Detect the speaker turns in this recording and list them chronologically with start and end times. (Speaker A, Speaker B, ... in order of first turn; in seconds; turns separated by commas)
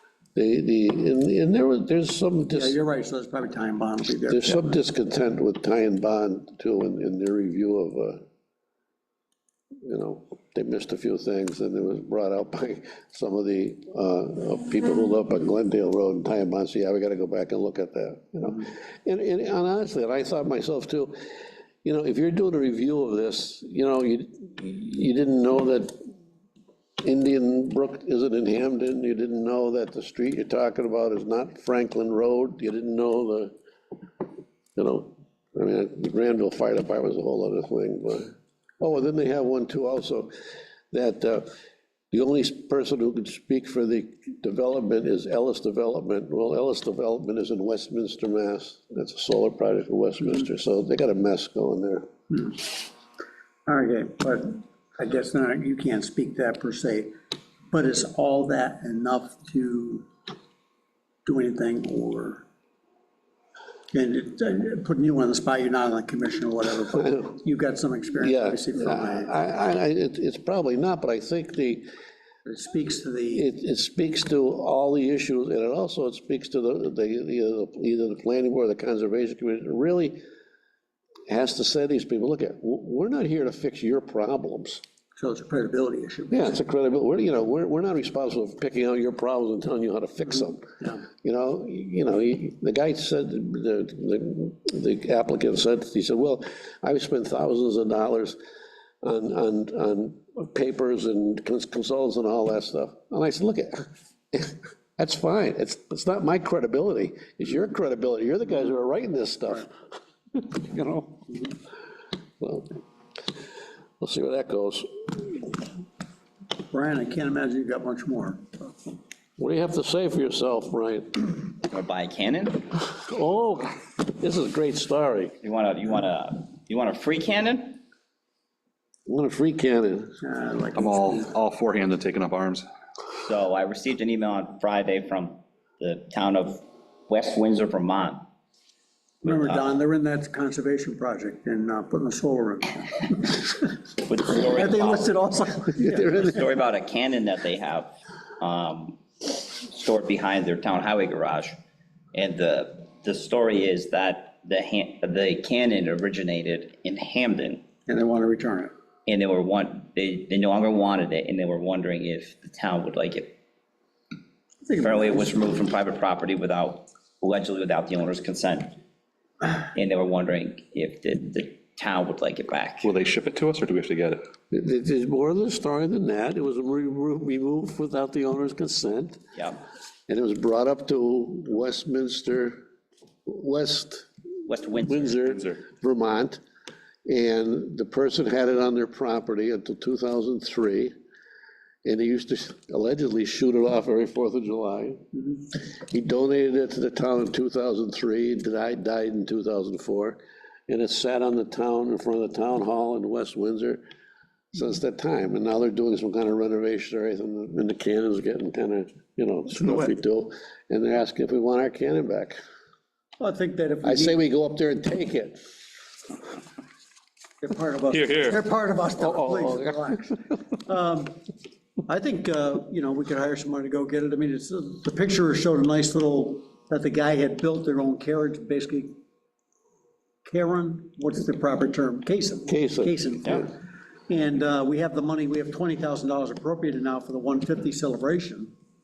Speaker A: 0.3-2.8, Speaker B: 2.5-4.6, Speaker A: 4.3-8.2, Speaker A: 9.8-21.2, Speaker A: 21.8-26.1, Speaker A: 27.0-33.5, Speaker A: 34.8-40.3, Speaker A: 40.9-41.5, Speaker A: 42.1-52.1, Speaker B: 52.3-52.7, Speaker B: 53.7-57.1, Speaker B: 57.7-60.1, Speaker B: 61.2-62.4, Speaker B: 63.9-69.3, Speaker A: 68.2-71.8, Speaker B: 72.5-73.4, Speaker A: 73.3-80.2, Speaker A: 81.3-84.8, Speaker B: 85.2-86.5, Speaker A: 86.3-98.4, Speaker A: 99.0-109.7, Speaker A: 110.3-111.4, Speaker A: 112.4-112.8, Speaker A: 114.0-115.5, Speaker B: 116.7-118.7, Speaker A: 119.4-121.5, Speaker C: 121.6-122.7, Speaker A: 122.9-125.3, Speaker C: 125.4-127.8, Speaker A: 129.1-130.1, Speaker B: 130.2-131.3, Speaker D: 130.8-132.6, Speaker C: 133.2-138.2, Speaker C: 139.2-139.8, Speaker B: 139.2-143.7, Speaker C: 144.0-145.1, Speaker B: 144.3-146.2, Speaker A: 145.8-146.3, Speaker C: 145.9-151.6, Speaker C: 152.1-157.6, Speaker B: 157.9-158.7, Speaker C: 159.1-163.3, Speaker B: 164.7-165.4, Speaker C: 164.7-168.8, Speaker C: 169.7-172.9, Speaker D: 172.8-174.2, Speaker A: 174.5-179.2, Speaker C: 179.3-179.6, Speaker A: 180.1-182.6, Speaker A: 183.2-184.1, Speaker C: 184.4-185.4, Speaker A: 184.8-186.4, Speaker A: 187.1-190.9, Speaker A: 191.8-195.0, Speaker A: 195.8-203.8, Speaker A: 204.5-212.4, Speaker D: 209.6-209.9, Speaker B: 213.2-214.2, Speaker A: 213.8-215.4, Speaker B: 217.4-221.2, Speaker D: 217.9-218.4, Speaker A: 219.0-220.2, Speaker B: 221.9-228.9, Speaker B: 230.2-233.5, Speaker A: 232.5-233.4, Speaker B: 234.1-238.5